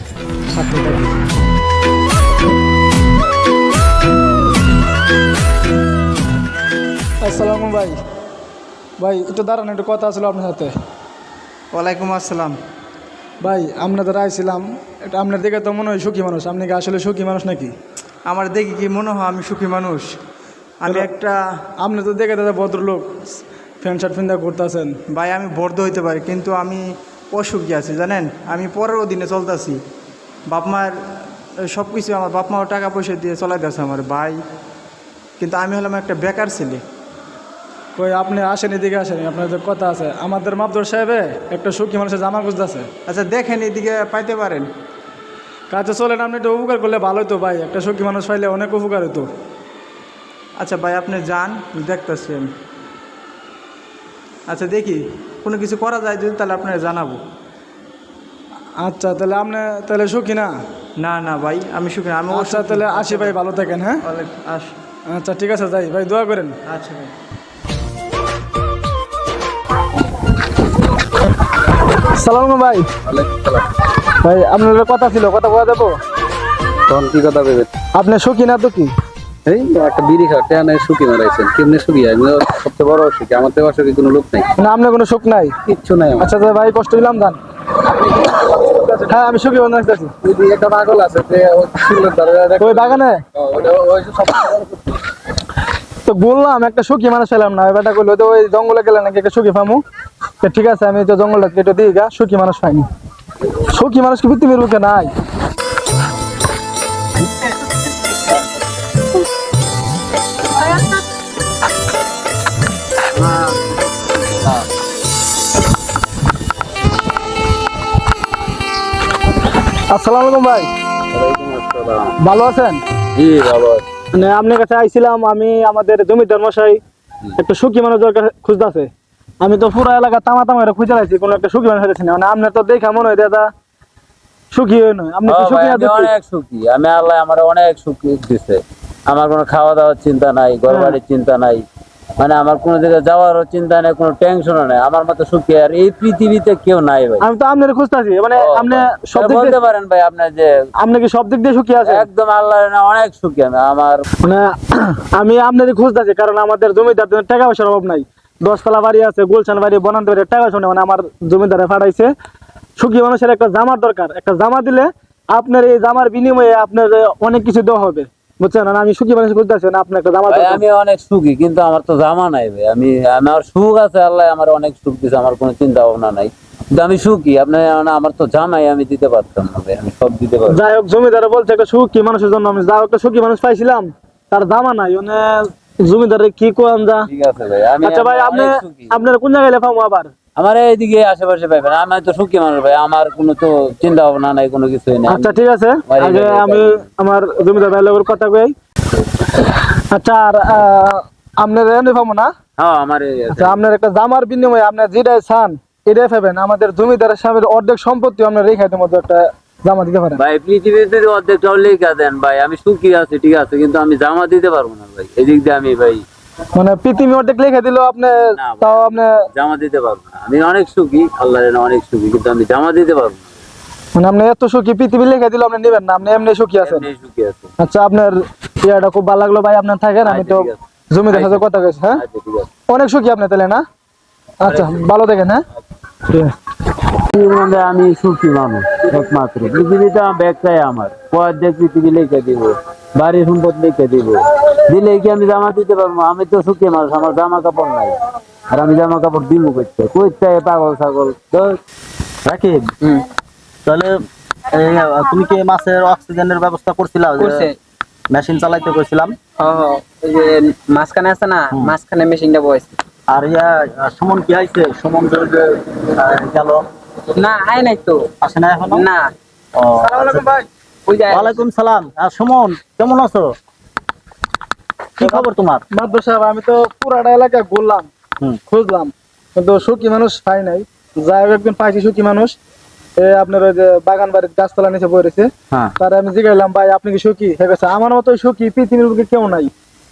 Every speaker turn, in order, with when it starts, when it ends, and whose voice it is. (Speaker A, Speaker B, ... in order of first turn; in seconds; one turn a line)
Speaker A: 0.5-1.2
Speaker A: 7.2-8.0
Speaker A: 9.0-10.7
Speaker B: 11.7-12.6
Speaker A: 13.4-17.7
Speaker B: 18.3-20.2
Speaker B: 20.8-21.6
Speaker A: 21.8-23.2
Speaker A: 23.8-25.0
Speaker B: 25.1-29.8
Speaker B: 30.5-34.4
Speaker B: 35.4-36.8
Speaker A: 38.0-42.9
Speaker B: 43.1-44.7
Speaker A: 45.7-49.3
Speaker B: 50.6-52.5
Speaker B: 54.5-57.2
Speaker A: 58.8-60.5
Speaker B: 61.0-63.4
Speaker A: 62.3-64.0
Speaker B: 64.0-64.8
Speaker A: 65.1-66.6
Speaker B: 66.7-67.1
Speaker A: 72.0-72.9
Speaker C: 73.1-73.5
Speaker A: 74.2-75.9
Speaker C: 76.9-77.7
Speaker A: 78.0-78.9
Speaker C: 79.5-84.2
Speaker D: 79.6-84.5
Speaker A: 84.6-85.5
Speaker C: 85.7-86.1
Speaker A: 86.2-87.4
Speaker D: 88.0-89.0
Speaker A: 89.0-90.1
Speaker D: 90.2-94.7
Speaker A: 92.6-93.2
Speaker A: 96.0-99.8
Speaker A: 100.4-102.9
Speaker A: 103.7-105.1
Speaker C: 113.2-113.8
Speaker A: 119.9-120.7
Speaker C: 121.1-122.2
Speaker A: 122.2-122.8
Speaker C: 123.2-123.8
Speaker A: 124.1-126.8
Speaker A: 127.4-128.9
Speaker A: 129.4-133.5
Speaker A: 134.5-136.1
Speaker C: 135.3-141.7
Speaker A: 140.7-141.0
Speaker C: 142.2-147.2
Speaker A: 147.2-149.6
Speaker C: 148.3-150.5
Speaker A: 150.8-152.1
Speaker C: 151.8-154.0
Speaker A: 154.2-162.1
Speaker A: 162.8-170.6
Speaker C: 170.3-180.6
Speaker A: 180.5-187.1
Speaker C: 187.1-188.9
Speaker A: 187.8-190.1
Speaker C: 190.4-196.8
Speaker A: 195.1-198.5
Speaker A: 199.7-202.3
Speaker C: 202.6-203.6
Speaker A: 203.3-210.2
Speaker C: 210.2-216.0
Speaker A: 216.6-219.2
Speaker C: 218.4-223.3
Speaker A: 223.9-226.9
Speaker C: 226.6-227.4
Speaker A: 227.6-232.0
Speaker C: 230.0-230.6
Speaker C: 231.1-232.5
Speaker A: 232.7-233.6
Speaker A: 234.4-235.4
Speaker C: 234.5-234.8
Speaker C: 237.1-248.0
Speaker C: 248.5-251.6
Speaker E: 252.2-252.6
Speaker F: 252.8-253.1
Speaker E: 253.7-257.5
Speaker F: 257.2-257.6
Speaker E: 258.1-259.1
Speaker F: 259.4-262.7
Speaker E: 263.1-266.6
Speaker F: 267.1-268.1
Speaker E: 268.2-268.9
Speaker F: 268.7-269.1
Speaker E: 269.6-270.3
Speaker A: 269.9-270.4
Speaker F: 270.9-271.4
Speaker E: 271.1-273.3
Speaker E: 275.0-275.6
Speaker A: 275.0-277.9
Speaker A: 278.5-282.3
Speaker A: 283.0-289.5